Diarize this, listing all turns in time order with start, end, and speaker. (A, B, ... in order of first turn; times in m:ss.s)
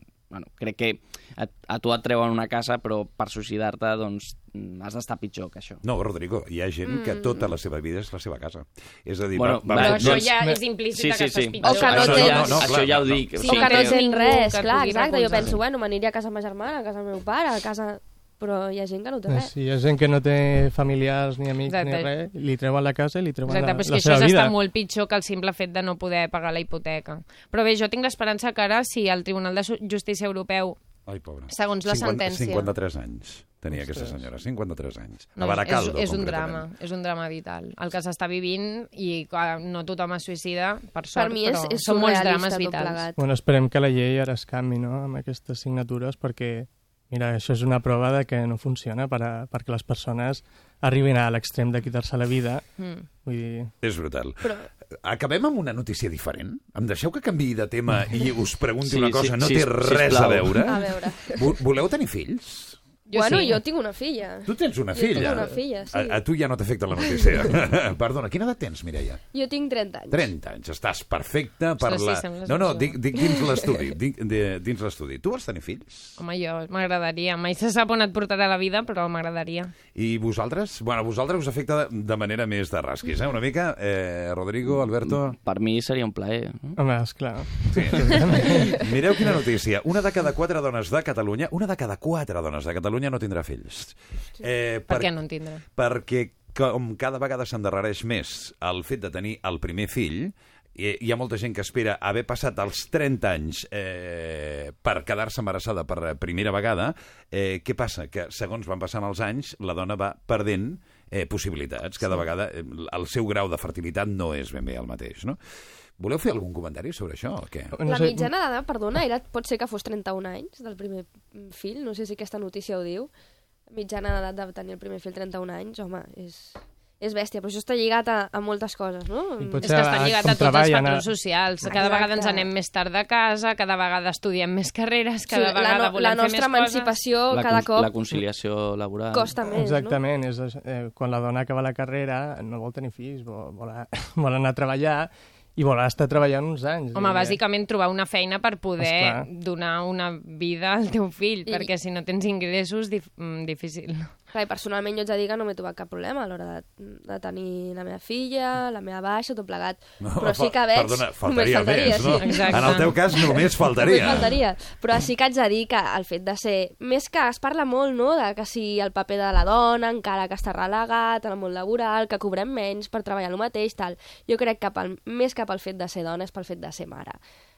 0:00.3-0:05.8 A
0:05.8-0:10.3 B
0:06.9-0:07.5 C
0:09.3-0:10.4 A
0:09.8-0:12.6 C
0:11.0-0:14.0 A
0:11.6-0:12.6 D
0:11.9-0:13.3 B
0:13.4-0:15.5 C
0:13.4-0:19.5 D
0:19.3-0:24.5 E
0:21.6-0:22.1 C
0:23.5-0:30.8 C
0:31.1-0:36.7 B
0:31.5-0:32.7 C
0:33.7-0:34.3 E
0:35.4-0:43.1 C
0:41.1-0:43.2 D
0:43.2-0:52.7 E
0:52.8-0:53.0 C
0:53.2-0:53.7 E
0:53.8-1:02.8 B
0:58.8-1:00.7 A
1:00.6-1:01.4 D
1:03.1-1:03.6 C
1:03.1-1:06.2 D
1:04.5-1:09.2 B
1:09.3-1:10.3 D
1:10.1-1:16.2 B
1:11.8-1:13.0 C
1:13.2-1:13.7 D
1:16.2-1:19.7 C
1:20.0-1:25.4 B
1:24.6-1:26.8 A
1:26.8-1:28.7 E
1:27.4-1:27.8 A
1:27.7-1:35.1 B
1:34.9-1:35.6 C
1:35.7-1:55.4 B
1:56.0-1:57.8 B
1:57.8-1:58.3 E
1:57.8-2:03.1 D
2:03.7-2:09.7 D
2:09.4-2:11.1 E
2:09.6-2:17.0 C
2:11.7-2:12.5 D
2:15.3-2:17.9 D
2:17.3-2:19.4 A
2:19.1-2:20.0 D
2:19.6-2:27.4 E
2:27.0-2:34.1 C
2:28.8-2:29.3 E
2:34.3-2:57.2 D
2:40.0-2:44.3 B
2:42.2-2:43.0 C